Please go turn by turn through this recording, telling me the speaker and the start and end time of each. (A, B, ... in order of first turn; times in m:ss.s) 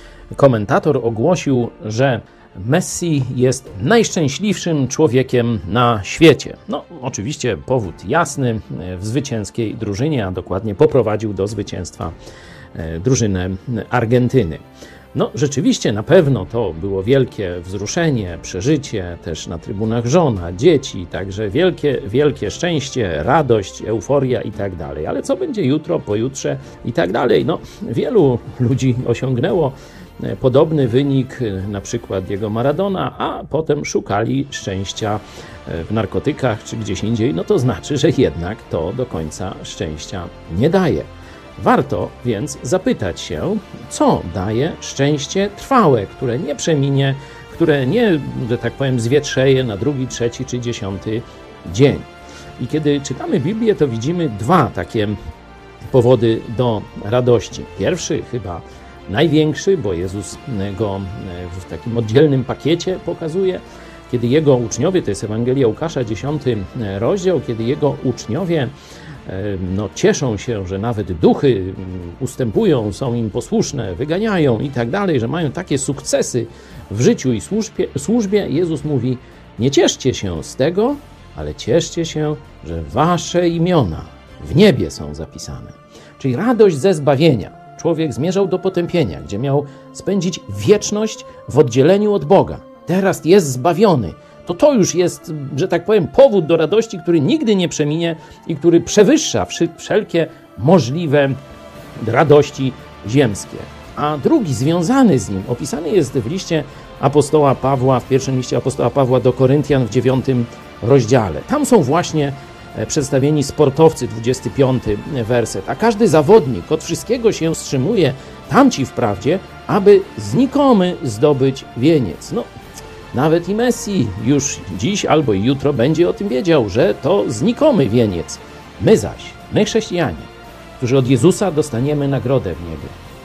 0:00.3-0:12.1 A
0:12.7-0:14.6 A
0:15.1-0:55.2 A
0:55.9-1:08.7 A
1:09.2-1:41.4 A
1:42.0-2:02.5 A
2:03.1-2:12.9 A